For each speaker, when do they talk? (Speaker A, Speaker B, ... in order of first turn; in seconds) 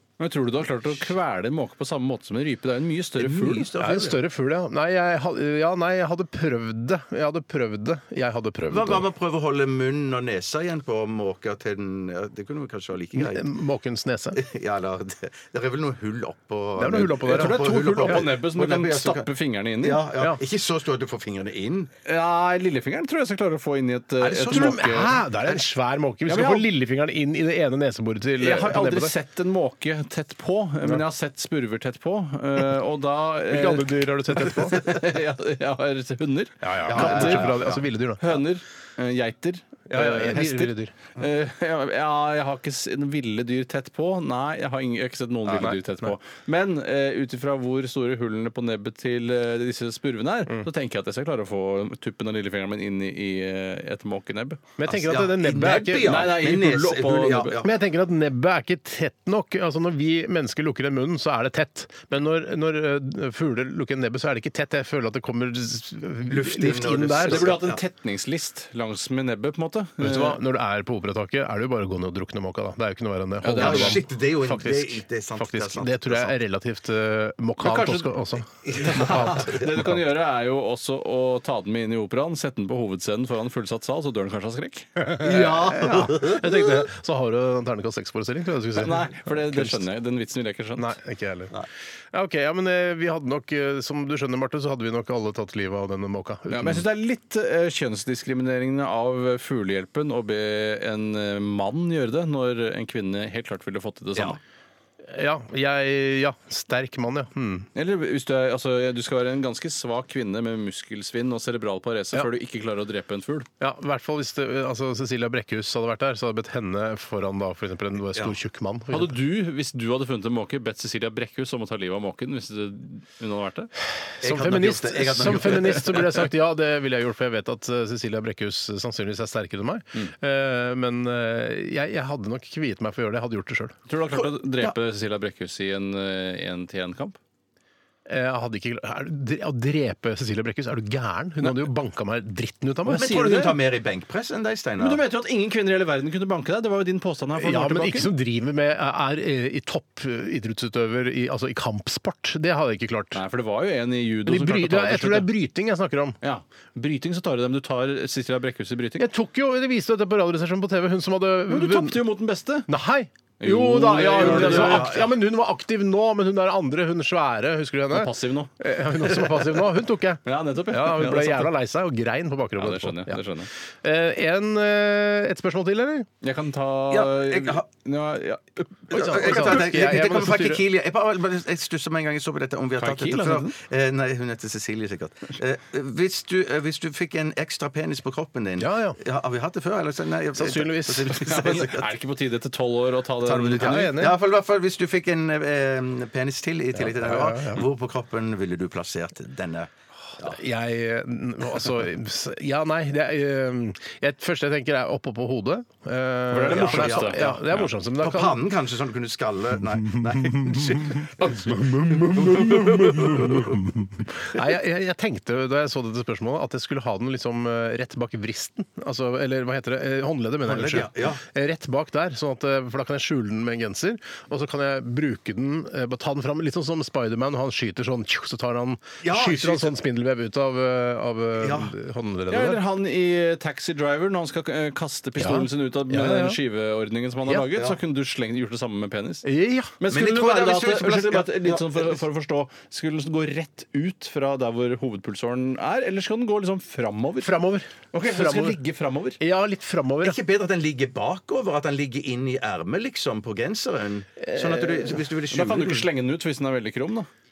Speaker A: 0.2-3.7, 17.3-20.1, 22.1-25.2, 26.3-26.7, 28.4-37.5, 38.2-54.6, 56.0-57.6, 67.2-70.4, 73.4-74.0, 77.6-84.9, 88.8-91.0, 96.5-104.4, 107.8-113.5, 118.9-123.7, 133.9-137.2, 142.9-143.6, 144.8-148.1, 153.1-155.3, 156.2-159.1, 161.5-162.7, 163.4-165.0, 167.9-168.5, 170.2-171.5, 172.6-173.5, 176.2-179.6, 182.8-183.6, 191.1-194.0, 206.3-207.7, 232.3-239.3, 239.8-247.4, 247.9-249.2, 255.3-257.1
Speaker B: 3.2-4.2, 8.7-13.5, 14.3-19.3, 19.8-21.9, 24.2-25.6, 36.9-37.9, 54.9-57.8, 66.3-67.8, 73.6-76.3, 78.7-79.8, 85.2-86.8, 124.2-126.2, 142.9-145.0, 164.0-165.1, 176.9-177.7, 178.9-191.9, 193.2-200.4, 206.5-213.7, 220.4-221.2, 229.0-229.8, 231.4-231.7, 239.9-242.0, 250.0-255.9
Speaker C: 3.8-9.1, 13.2-14.4, 16.8-18.2, 24.3-29.1, 33.5-34.9, 36.6-38.4, 39.9-40.9, 45.5-46.1, 54.8-56.3, 57.6-67.5, 70.0-79.9, 85.0-89.9, 90.8-91.5, 92.1-96.8, 105.1-107.7, 113.6-119.2, 124.2-133.8, 138.1-143.2, 147.4-153.2, 154.2-156.2, 159.0-162.0, 162.7-173.2, 173.8-176.1, 178.9-180.6, 188.6-189.0, 190.3-191.2, 193.6-194.2, 196.8-197.7, 200.2-208.4, 209.9-232.6, 235.2-236.4, 239.2-239.8, 247.2-248.6, 249.2-250.2, 254.2-255.0